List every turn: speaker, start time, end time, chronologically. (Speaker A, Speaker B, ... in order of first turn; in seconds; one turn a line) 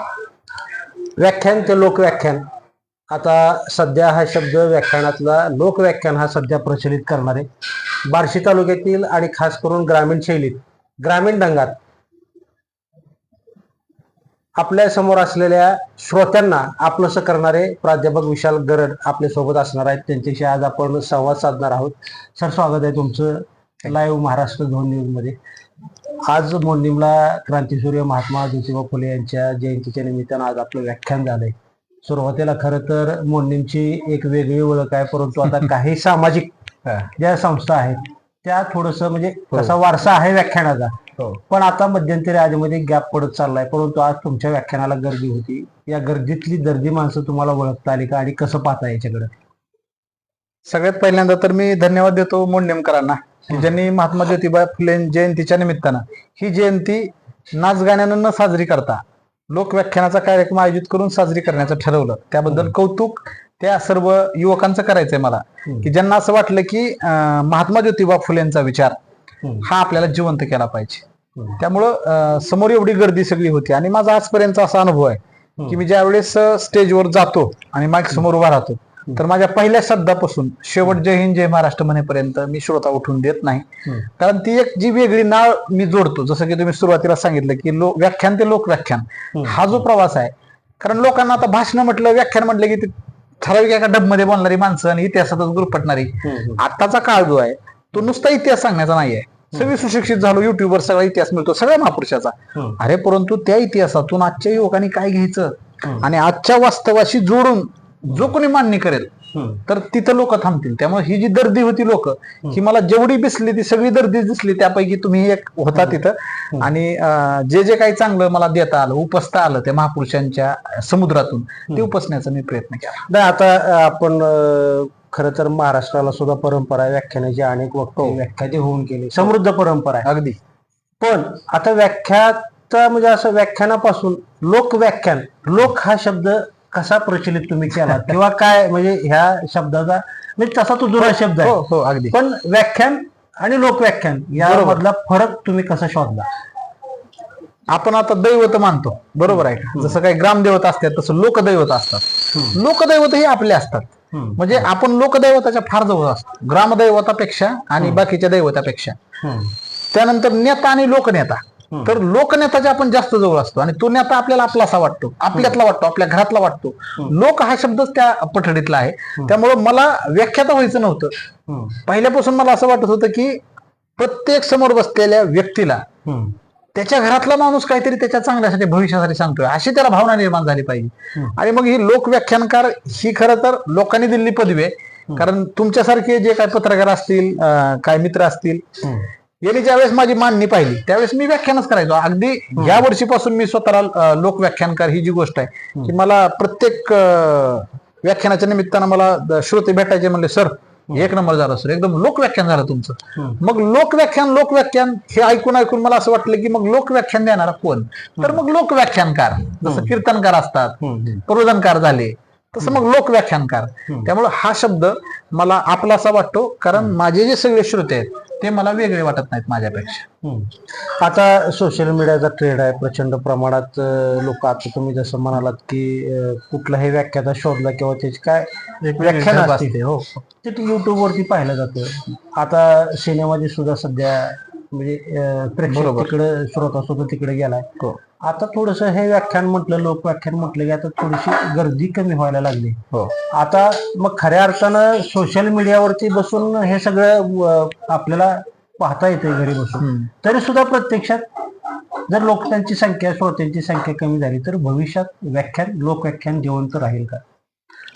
Speaker A: 1.1-2.4
Speaker A: 3.1-7.5
Speaker A: 8.0-11.8
Speaker A: 14.6-25.4
Speaker A: 26.2-36.5
Speaker A: 37.0-41.0
Speaker A: 41.5-49.3
Speaker B: 50.7-68.9
Speaker B: 69.6-71.0
Speaker B: 71.6-109.1
Speaker A: 96.2-96.6
Speaker A: 109.3-109.6
Speaker B: 109.7-123.1
Speaker A: 123.1-130.1
Speaker B: 130.0-130.4
Speaker A: 131.0-141.6
Speaker B: 141.0-142.1
Speaker A: 142.1-146.3
Speaker B: 144.4-144.8
Speaker B: 147.7-158.9
Speaker A: 154.1-154.7
Speaker A: 159.2-159.5
Speaker B: 159.9-171.1
Speaker A: 171.5-171.8
Speaker B: 171.8-173.4
Speaker B: 174.0-175.8
Speaker A: 176.0-176.3
Speaker B: 176.7-188.6
Speaker B: 189.4-220.1
Speaker A: 192.6-192.8
Speaker A: 209.6-210.0
Speaker A: 210.8-211.2
Speaker A: 220.2-229.7
Speaker B: 228.8-230.2
Speaker A: 230.4-237.7
Speaker B: 235.7-236.1
Speaker A: 238.2-242.8
Speaker A: 243.3-251.2
Speaker A: 252.1-257.2